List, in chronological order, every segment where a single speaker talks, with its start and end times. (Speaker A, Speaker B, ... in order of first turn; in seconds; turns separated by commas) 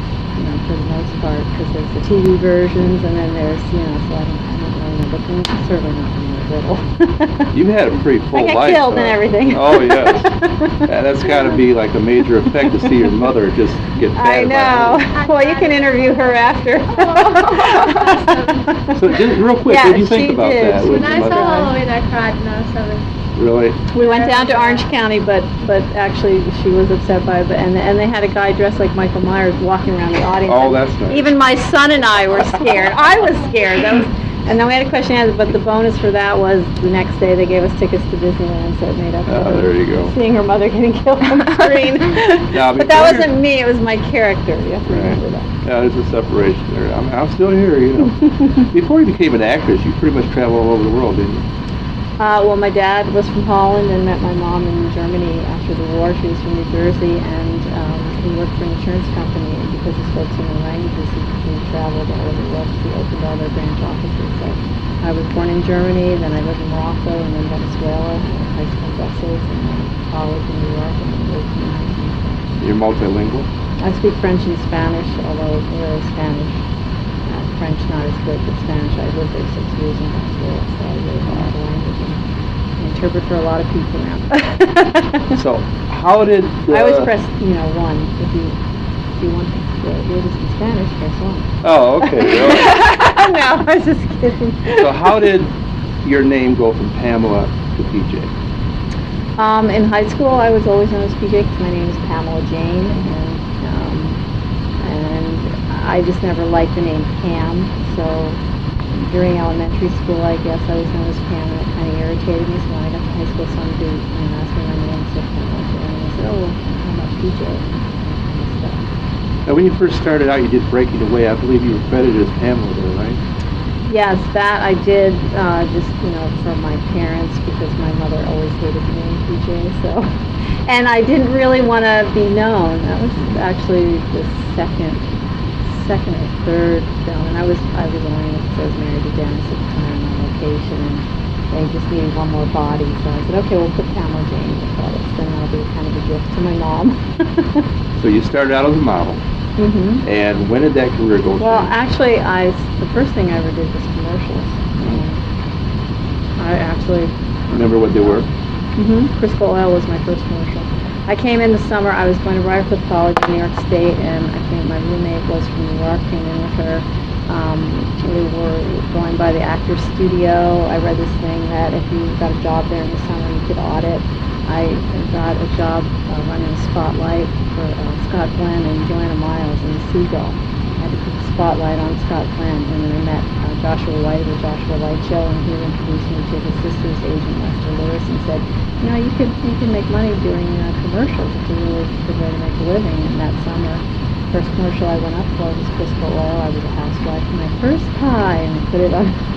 Speaker A: 0.4-7.5, Speaker B: 7.5-15.1, Speaker A: 8.3-10.9, Speaker A: 14.2-18.9, Speaker C: 15.1-18.7, Speaker B: 18.9-21.7, Speaker A: 19.6-21.7, Speaker C: 20.8-23.0, Speaker B: 23.4-23.8, Speaker A: 23.9-45.5, Speaker C: 24.0-24.9, Speaker B: 30.5-31.3, Speaker B: 39.3-40.1, Speaker B: 42.5-43.4, Speaker B: 44.9-51.5, Speaker A: 52.2-72.4, Speaker B: 72.6-73.5, Speaker A: 73.8-76.6, Speaker A: 77.3-82.2, Speaker A: 82.8-85.3, Speaker B: 85.3-87.1, Speaker A: 86.7-88.6, Speaker A: 89.2-95.3, Speaker B: 91.6-92.8, Speaker B: 94.8-98.3, Speaker A: 99.4-104.2, Speaker A: 104.8-118.8, Speaker B: 119.5-123.2, Speaker A: 123.9-130.1, Speaker A: 130.7-135.1, Speaker A: 135.7-147.6, Speaker B: 148.0-149.2, Speaker A: 149.6-150.1, Speaker B: 150.0-151.7, Speaker A: 151.4-155.2, Speaker A: 156.4-157.6, Speaker B: 157.5-158.3, Speaker A: 158.8-199.2